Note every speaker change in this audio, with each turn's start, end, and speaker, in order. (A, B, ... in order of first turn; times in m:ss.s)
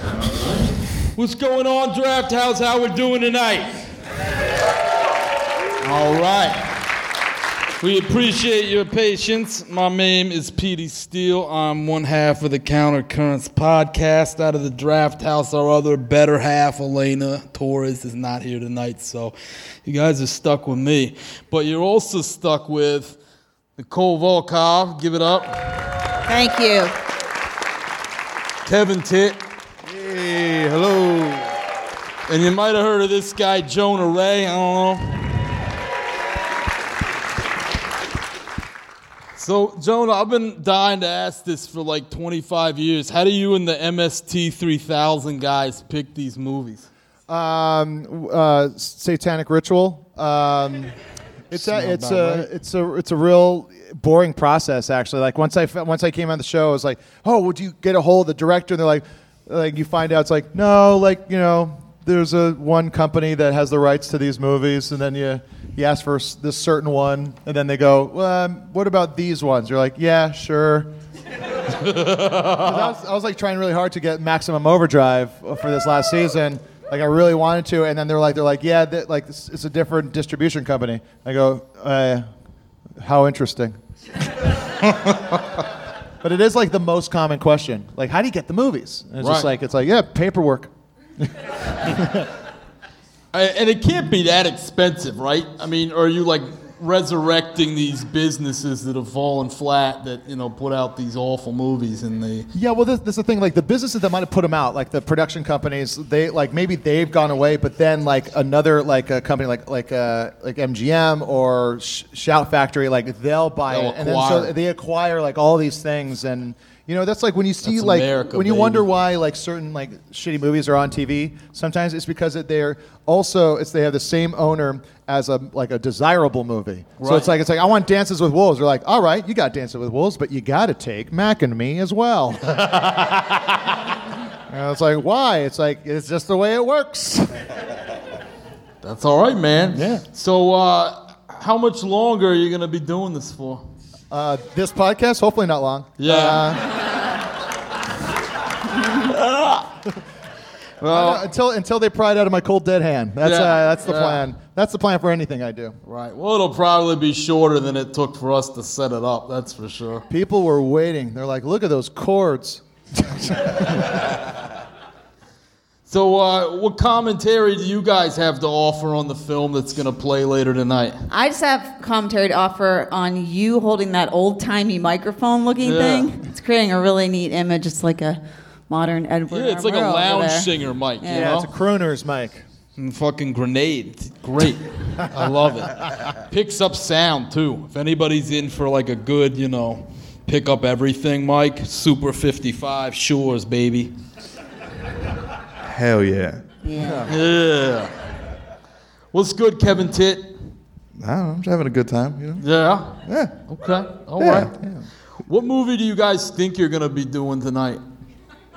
0:01.1-0:03.8 A
0:05.8-0:06.7 A
0:07.8-0:23.2 A
0:23.8-0:26.0 A
0:26.3-0:26.9 B
0:28.6-0:29.4 A
0:29.8-0:31.5 C
0:32.3-0:35.4 A
0:39.3-0:46.9 A
0:47.3-0:51.0 D
0:51.5-1:10.9 D
0:51.5-0:52.5 A
1:11.8-1:12.9 A
1:12.6-1:22.2 D
1:23.0-1:23.8 D
1:26.2-1:32.3 D
1:29.2-1:29.5 A
1:33.3-1:42.5 A
1:42.5-2:13.6 D
1:53.7-1:54.6 A
1:57.6-1:58.9 A
2:07.0-2:07.3 A
2:14.5-2:17.4 D
2:18.8-2:23.6 A
2:19.7-2:20.0 D
2:24.1-2:26.8 D
2:26.0-2:26.5 A
2:29.0-2:29.6 A
2:30.8-2:31.3 A
2:30.9-2:35.8 D
2:33.2-2:34.3 A
2:35.8-2:40.0 A
2:40.1-2:44.1 D
2:45.9-2:51.0 A
2:51.1-3:01.3 B
2:55.6-2:56.1 A
2:59.3-3:01.5 A
3:01.1-3:02.4 D
3:02.8-3:13.9 A
3:15.6-3:16.4 C
3:16.6-3:17.1 B
3:16.7-3:17.1 D
3:17.1-3:17.9 A
3:19.1-3:20.4 A
3:21.0-3:22.4 C
3:22.4-3:24.5 A
3:23.1-3:23.3 C
3:24.2-3:24.5 C
3:24.5-3:24.8 D
3:25.3-3:27.8 A